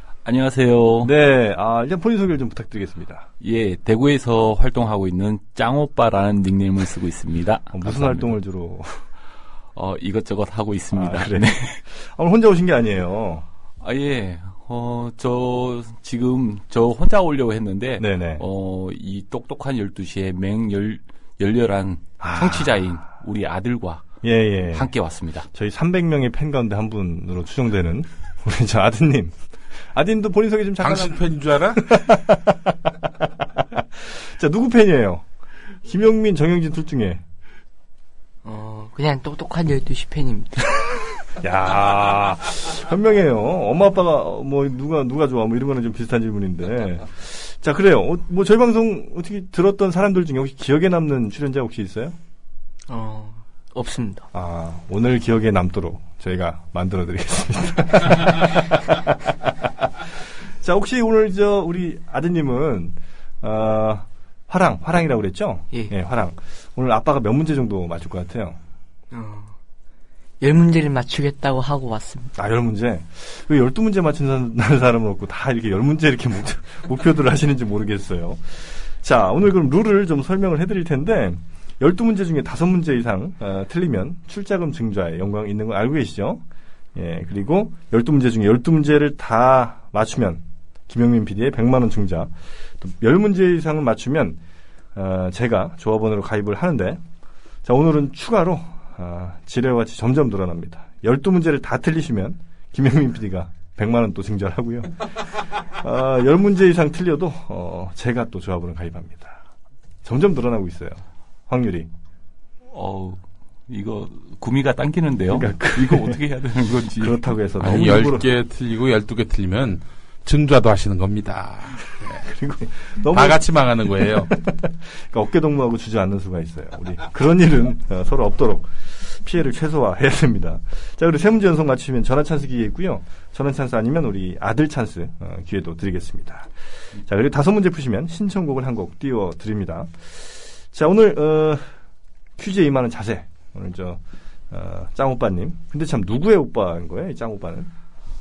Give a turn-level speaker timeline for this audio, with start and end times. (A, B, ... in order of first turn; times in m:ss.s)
0:00.2-0:01.1 A
0:01.0-0:03.3 B
0:03.4-0:08.3 A
0:07.7-0:09.0 B
0:09.7-0:11.8 A
0:10.9-0:13.4 B
0:13.8-0:24.2 A
0:18.0-0:18.4 B
0:22.2-0:22.7 B
0:24.2-0:24.9 B
0:24.7-0:25.5 A
0:25.5-0:29.4 B
0:29.9-0:35.2 B
0:30.8-0:31.9 C
0:35.8-0:37.2 B
0:38.4-0:41.1 D
0:41.4-0:52.2 B
0:52.9-0:54.3 D
0:54.3-0:59.9 B
1:00.6-1:08.6 B
1:09.1-1:09.6 D
1:10.4-1:12.3 D
1:12.4-1:26.4 B
1:26.9-1:34.4 B
1:34.9-1:37.0 B
1:37.6-1:49.4 B
1:50.0-1:51.9 B
1:52.7-1:57.3 A
1:55.3-1:56.2 B
1:56.9-1:58.3 B
1:57.6-2:02.2 C
2:02.2-2:03.5 B
2:03.0-2:04.3 C
2:04.2-2:21.7 B
2:22.4-2:27.7 B